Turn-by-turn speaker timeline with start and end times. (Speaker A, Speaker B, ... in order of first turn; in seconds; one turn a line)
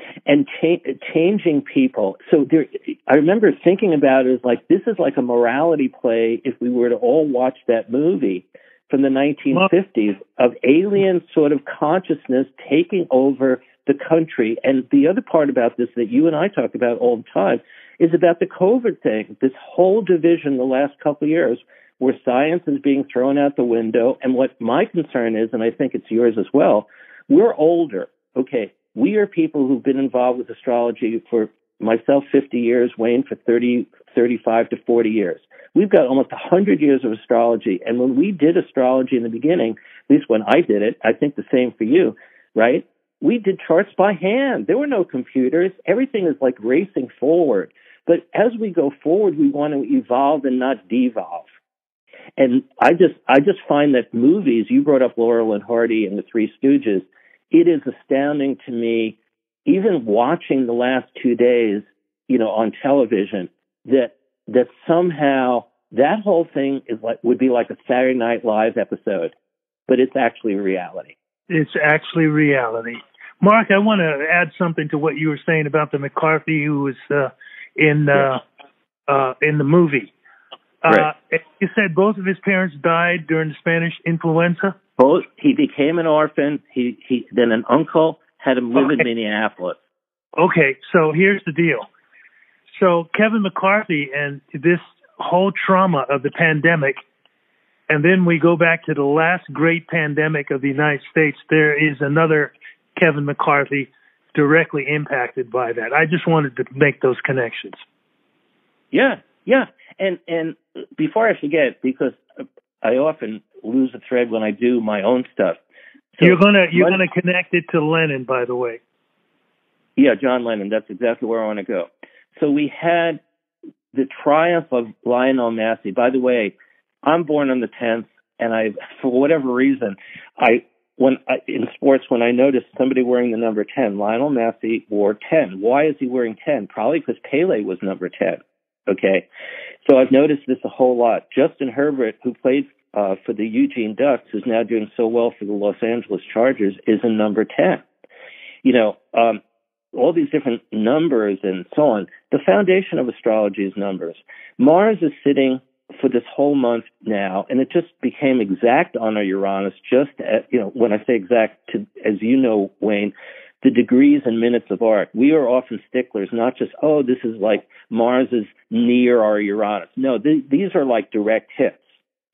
Speaker A: 0.3-51.5
Speaker A: 52.4-69.3
Speaker A: 69.9-71.1
Speaker B: 71.5-78.4
Speaker B: 79.1-80.1
Speaker B: 80.8-84.8
Speaker A: 85.0-89.8
Speaker B: 88.8-89.0
Speaker B: 90.4-91.9
Speaker B: 92.7-97.0
Speaker B: 97.9-107.8
Speaker A: 108.9-115.6
Speaker A: 116.1-117.0
Speaker B: 116.2-118.8
Speaker A: 120.0-123.2
Speaker A: 123.9-139.2
Speaker A: 139.8-147.8
Speaker A: 148.6-149.4
Speaker A: 149.9-171.9